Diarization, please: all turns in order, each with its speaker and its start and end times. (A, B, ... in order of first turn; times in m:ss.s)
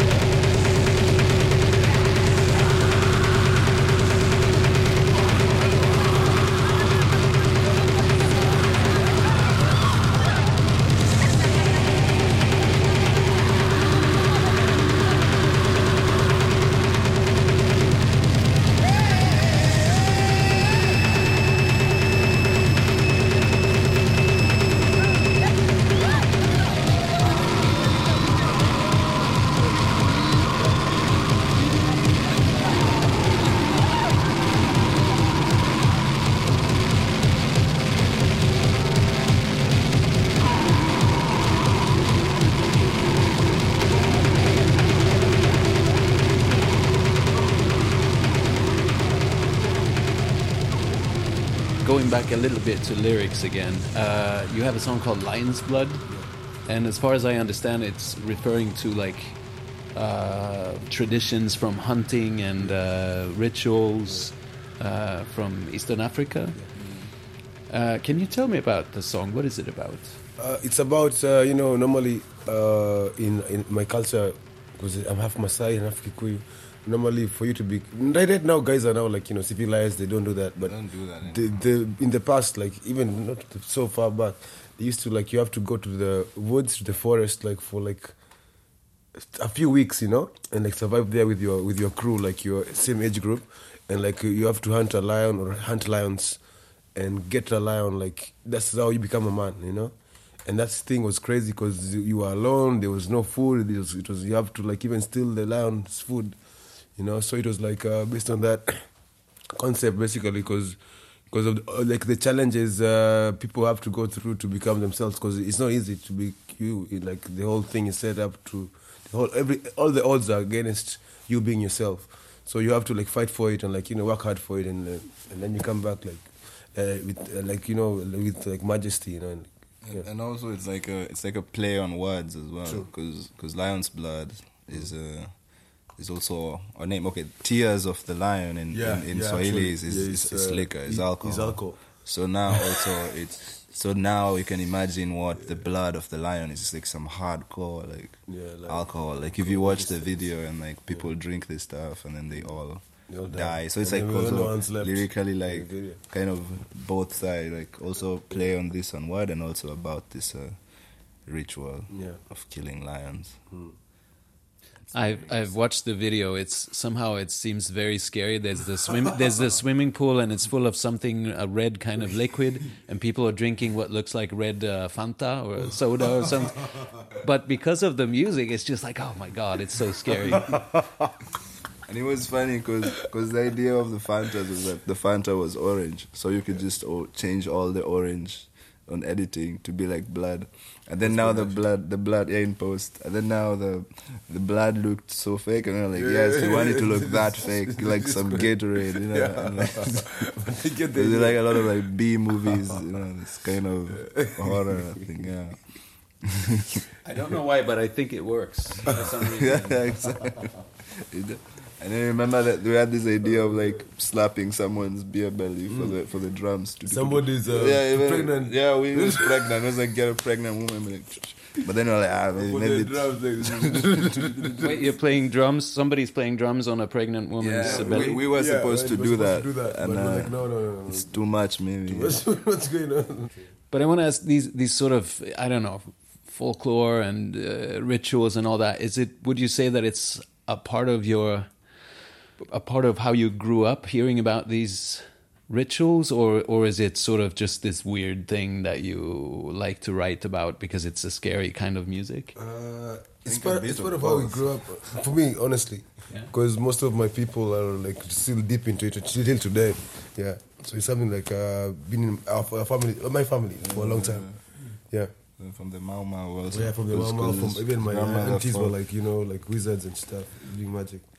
0:51.8-0:56.1 A
0:56.6-0:59.4 A
0:59.9-1:06.6 A
1:06.7-1:07.1 B
1:07.7-1:10.2 A
1:10.4-1:28.1 C
1:20.6-1:21.4 B
1:29.2-1:36.4 C
1:36.9-1:39.9 C
1:40.4-1:46.4 C
1:47.0-1:48.9 C
1:49.5-1:50.8 C
1:51.3-2:10.0 C
2:09.8-2:40.6 B
2:18.7-2:21.8 C
2:28.3-2:30.3 C
2:33.1-2:36.0 C
2:41.2-2:43.4 B
2:41.9-2:42.2 C
2:44.9-3:00.7 A
2:45.0-2:45.3 B
3:00.5-3:00.8 C
3:01.9-3:20.2 B
3:11.0-3:11.6 C
3:15.9-3:21.8 C
3:20.9-3:26.8 B
3:22.4-3:22.8 C
3:24.0-3:25.1 C
3:27.0-3:30.0 A
3:29.2-3:44.5 B
3:35.7-3:36.0 C
3:36.9-3:39.5 C
3:42.3-3:44.9 C
3:44.6-3:48.2 A
3:47.4-3:50.3 B
3:47.6-3:51.2 C
3:50.9-3:52.2 B
3:51.8-3:53.4 C
3:53.7-4:01.5 A
4:02.4-4:12.3 A
4:12.3-4:25.1 C
4:13.2-4:14.6 B
4:23.6-4:24.4 B
4:25.4-4:28.7 B
4:26.5-4:31.1 C